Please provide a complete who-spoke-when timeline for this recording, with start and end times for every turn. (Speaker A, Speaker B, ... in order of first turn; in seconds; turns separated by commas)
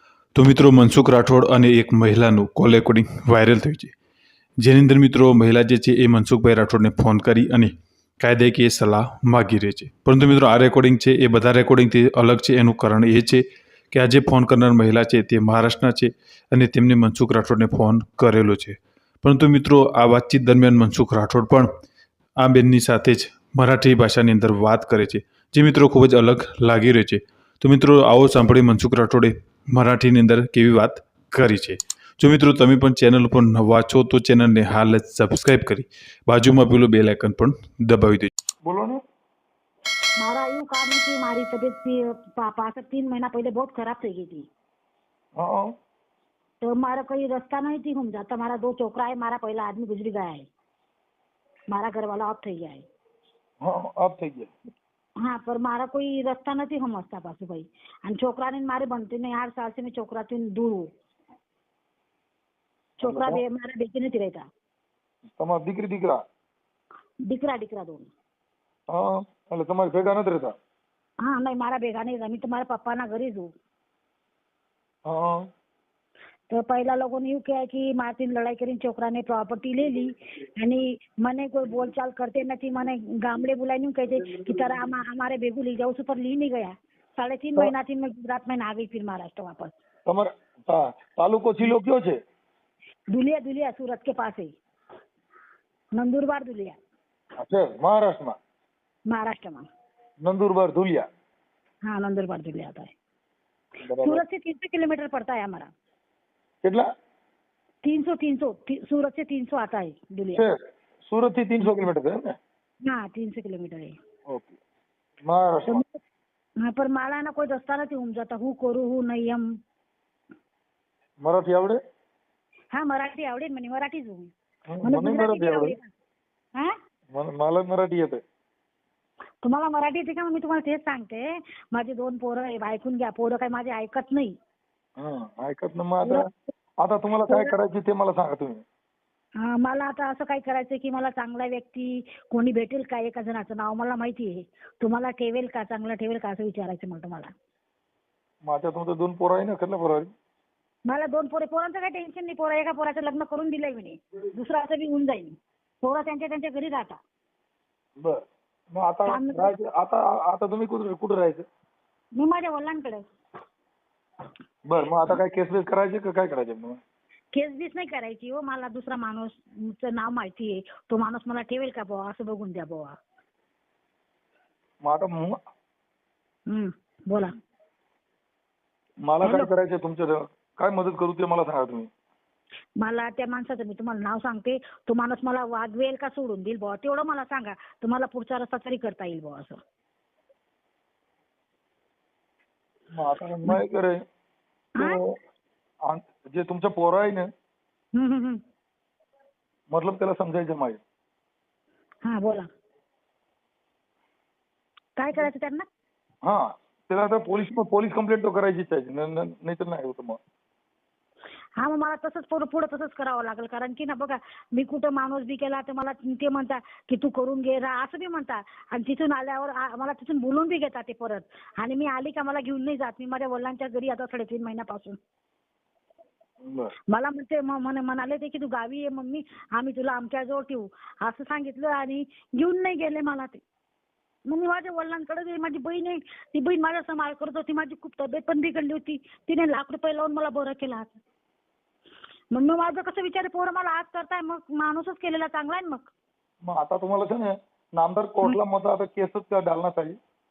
Speaker A: 0.3-3.9, Speaker A: 4.6-21.7, Speaker A: 22.4-38.3, Speaker B: 38.6-39.0, Speaker C: 40.2-44.5, Speaker B: 45.4-45.7, Speaker C: 46.6-50.5, Speaker C: 51.7-52.9, Speaker B: 53.6-54.5, Speaker C: 55.2-60.9, Speaker C: 63.0-64.5, Speaker B: 63.0-63.4, Speaker B: 65.4-66.2, Speaker C: 67.3-68.1, Speaker B: 68.9-70.5, Speaker C: 71.2-73.5, Speaker B: 75.1-75.5, Speaker C: 76.5-89.7, Speaker B: 90.1-92.2, Speaker C: 93.1-94.5, Speaker C: 96.0-96.8, Speaker B: 97.4-98.4, Speaker C: 99.1-99.7, Speaker B: 100.2-101.1, Speaker C: 101.8-102.9, Speaker B: 103.8-104.2, Speaker C: 104.0-105.7, Speaker C: 107.8-110.5, Speaker B: 110.3-112.4, Speaker C: 112.8-114.0, Speaker B: 114.3-114.6, Speaker B: 115.2-115.8, Speaker C: 116.6-119.5, Speaker B: 121.2-121.8, Speaker C: 122.7-124.3, Speaker B: 124.7-125.8, Speaker C: 124.8-125.9, Speaker B: 127.1-128.2, Speaker C: 129.4-134.4, Speaker B: 135.0-136.3, Speaker C: 136.0-136.3, Speaker B: 136.8-138.6, Speaker C: 137.3-137.6, Speaker C: 139.4-147.3, Speaker B: 148.4-150.1, Speaker C: 150.9-157.0, Speaker B: 158.0-161.5, Speaker C: 159.1-159.5, Speaker C: 162.2-163.0, Speaker B: 164.7-166.8, Speaker C: 167.3-173.0, Speaker B: 174.8-175.4, Speaker C: 176.5-177.3, Speaker B: 179.1-181.9, Speaker C: 179.2-179.5, Speaker C: 182.8-189.6, Speaker B: 192.9-194.0, Speaker B: 194.8-195.2, Speaker B: 195.9-197.3, Speaker C: 197.9-198.4, Speaker B: 199.7-200.8, Speaker C: 202.0-202.5, Speaker C: 205.0-205.7, Speaker B: 206.2-210.2, Speaker C: 211.6-225.0, Speaker B: 226.4-226.7, Speaker C: 226.9-233.4, Speaker C: 234.3-241.0, Speaker C: 242.3-245.9, Speaker B: 246.4-250.0